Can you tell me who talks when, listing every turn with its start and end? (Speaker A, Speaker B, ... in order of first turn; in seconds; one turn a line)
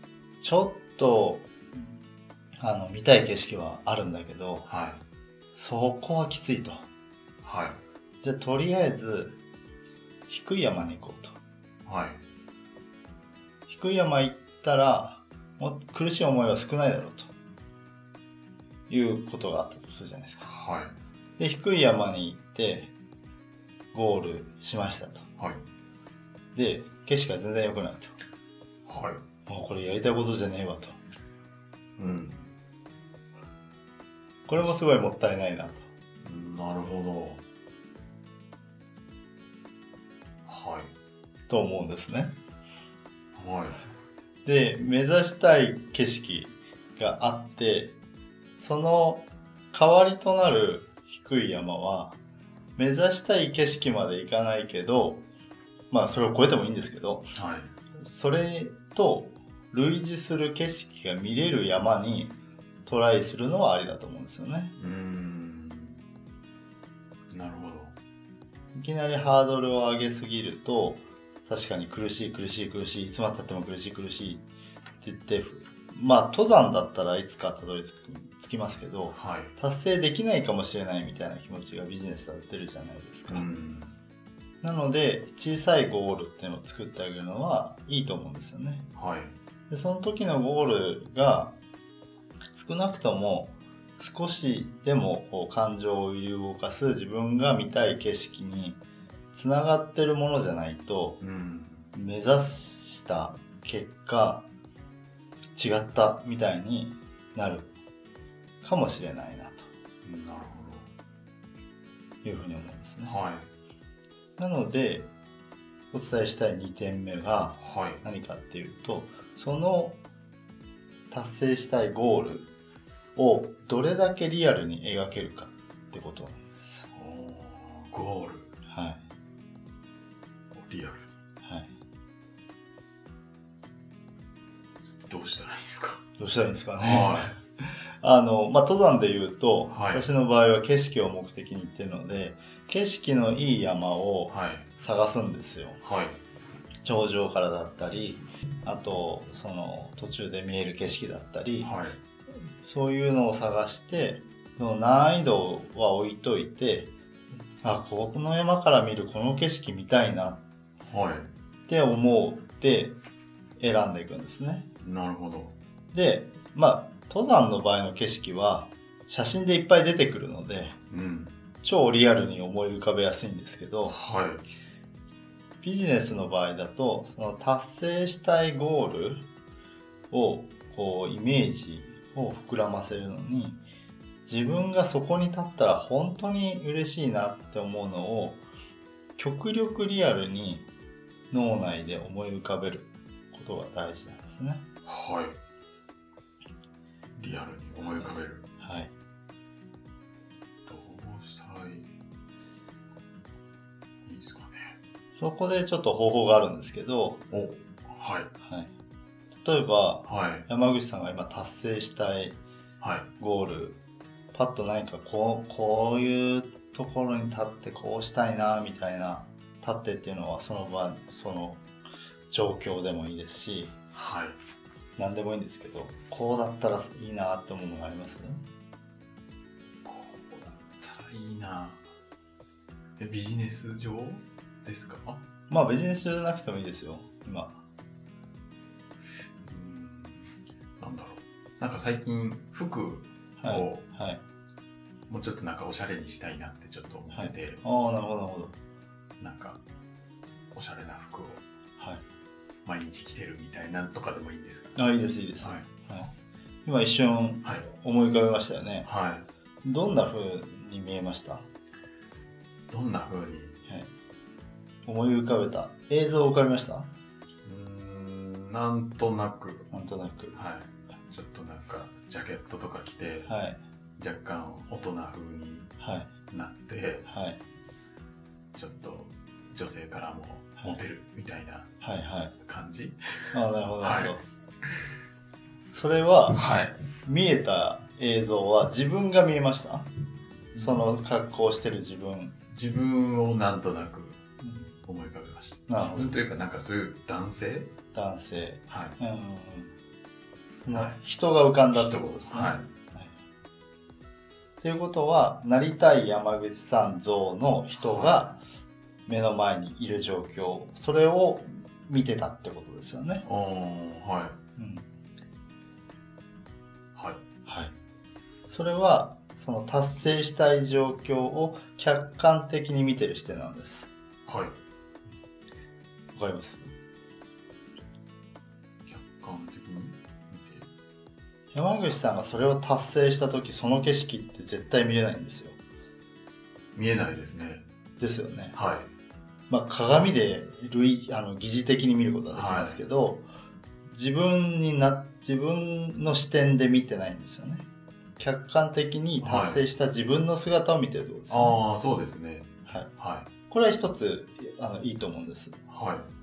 Speaker A: 0.4-1.9
Speaker A: 2.6-4.7
Speaker B: 4.7-5.0
Speaker A: 5.5-6.9
Speaker B: 7.4-7.8
Speaker A: 8.2-9.4
Speaker A: 10.3-11.4
Speaker B: 11.8-12.2
Speaker A: 13.7-17.3
Speaker A: 18.9-20.5
Speaker B: 20.4-21.0
Speaker A: 21.4-22.9
Speaker A: 23.9-25.3
Speaker A: 26.6-28.1
Speaker B: 28.9-29.2
Speaker A: 29.5-31.0
Speaker B: 32.0-32.5
Speaker A: 34.5-35.9
Speaker B: 36.2-37.4
Speaker B: 40.5-40.9
Speaker A: 41.5-42.3
Speaker B: 43.4-43.8
Speaker A: 44.5-48.0
Speaker A: 48.6-52.2
Speaker A: 52.8-55.2
Speaker A: 55.9-57.3
Speaker B: 57.3-57.7
Speaker A: 58.0-64.7
Speaker B: 64.8-66.0
Speaker B: 67.3-68.0
Speaker A: 68.7-74.5
Speaker A: 75.0-83.5
Speaker B: 79.1-79.5
Speaker B: 83.3-84.0
Speaker A: 84.6-88.9
Speaker B: 89.0-89.3
Speaker A: 89.7-91.5
Speaker A: 92.5-98.8
Speaker A: 99.3-101.2
Speaker B: 101.2-101.9
Speaker A: 101.9-104.5
Speaker A: 105.6-107.7
Speaker A: 108.6-109.7
Speaker B: 110.0-110.9
Speaker A: 112.2-113.2
Speaker B: 113.0-113.5
Speaker A: 114.4-115.1
Speaker A: 115.9-120.0
Speaker B: 117.6-118.0
Speaker A: 121.1-122.5
Speaker A: 123.2-126.8
Speaker B: 126.9-128.5
Speaker A: 128.7-129.0
Speaker B: 130.5-131.1
Speaker A: 131.4-131.7
Speaker B: 134.9-136.0
Speaker A: 136.2-145.8
Speaker B: 136.8-137.3
Speaker B: 139.7-140.1
Speaker B: 144.3-144.7
Speaker B: 145.8-146.2
Speaker A: 146.8-151.7
Speaker B: 151.6-152.0
Speaker A: 152.6-156.9
Speaker A: 157.6-160.4
Speaker B: 160.8-161.3
Speaker A: 161.7-163.0
Speaker A: 163.6-164.7
Speaker B: 164.8-165.6
Speaker A: 165.9-170.8
Speaker B: 170.9-171.4
Speaker A: 171.6-174.0
Speaker B: 173.9-174.4
Speaker A: 175.6-179.2
Speaker A: 180.1-183.6
Speaker A: 184.2-188.4
Speaker A: 189.2-190.7
Speaker A: 191.3-194.7
Speaker B: 194.8-195.4
Speaker B: 197.2-198.5
Speaker A: 198.6-198.9
Speaker B: 200.7-201.9
Speaker B: 204.1-204.8
Speaker A: 205.2-207.2
Speaker B: 207.3-208.3
Speaker A: 208.4-208.7
Speaker A: 209.4-212.4
Speaker B: 210.1-210.5
Speaker B: 212.8-213.1
Speaker A: 213.2-213.8
Speaker A: 214.3-221.6
Speaker A: 222.3-223.8
Speaker B: 223.9-224.4
Speaker A: 225.0-228.4
Speaker B: 229.8-231.8
Speaker B: 233.0-235.2
Speaker A: 235.5-237.6
Speaker B: 239.4-243.8
Speaker A: 243.4-244.2
Speaker B: 245.1-247.6
Speaker A: 247.1-248.6
Speaker B: 249.2-249.6
Speaker B: 250.5-251.4
Speaker B: 252.7-254.8
Speaker A: 254.8-256.1
Speaker A: 256.6-258.9
Speaker B: 258.8-259.3
Speaker A: 259.6-261.5
Speaker B: 262.7-263.6
Speaker A: 264.9-266.9
Speaker B: 267.4-269.7
Speaker A: 269.7-270.4
Speaker B: 270.3-273.3
Speaker A: 273.3-273.6
Speaker B: 274.0-275.7
Speaker A: 275.8-276.1
Speaker B: 276.3-277.1
Speaker A: 277.1-277.4
Speaker B: 278.5-281.7
Speaker A: 281.8-282.3
Speaker B: 282.4-284.9
Speaker A: 283.3-284.2
Speaker A: 285.7-286.4
Speaker B: 286.3-286.8
Speaker A: 287.0-289.9
Speaker B: 290.6-290.9
Speaker A: 290.6-292.4
Speaker B: 292.5-294.2
Speaker A: 294.4-294.7
Speaker B: 294.8-297.7
Speaker A: 295.7-296.2
Speaker A: 297.9-299.7
Speaker B: 298.7-299.0
Speaker A: 300.6-303.1
Speaker B: 301.7-302.7
Speaker A: 304.6-308.4
Speaker B: 307.8-308.3
Speaker A: 309.1-313.2
Speaker B: 313.2-314.4
Speaker A: 314.6-314.9
Speaker B: 316.9-317.2
Speaker A: 317.5-317.7
Speaker A: 318.5-323.9
Speaker B: 324.3-324.6
Speaker A: 326.1-326.7
Speaker B: 328.9-330.7
Speaker A: 331.5-335.6
Speaker B: 336.8-337.6
Speaker A: 338.0-338.6
Speaker B: 338.5-338.9
Speaker A: 339.5-343.2
Speaker B: 342.3-342.8
Speaker A: 343.9-347.7
Speaker A: 348.2-351.6
Speaker B: 349.2-349.6
Speaker B: 351.3-353.3
Speaker A: 353.5-355.6
Speaker B: 355.7-356.1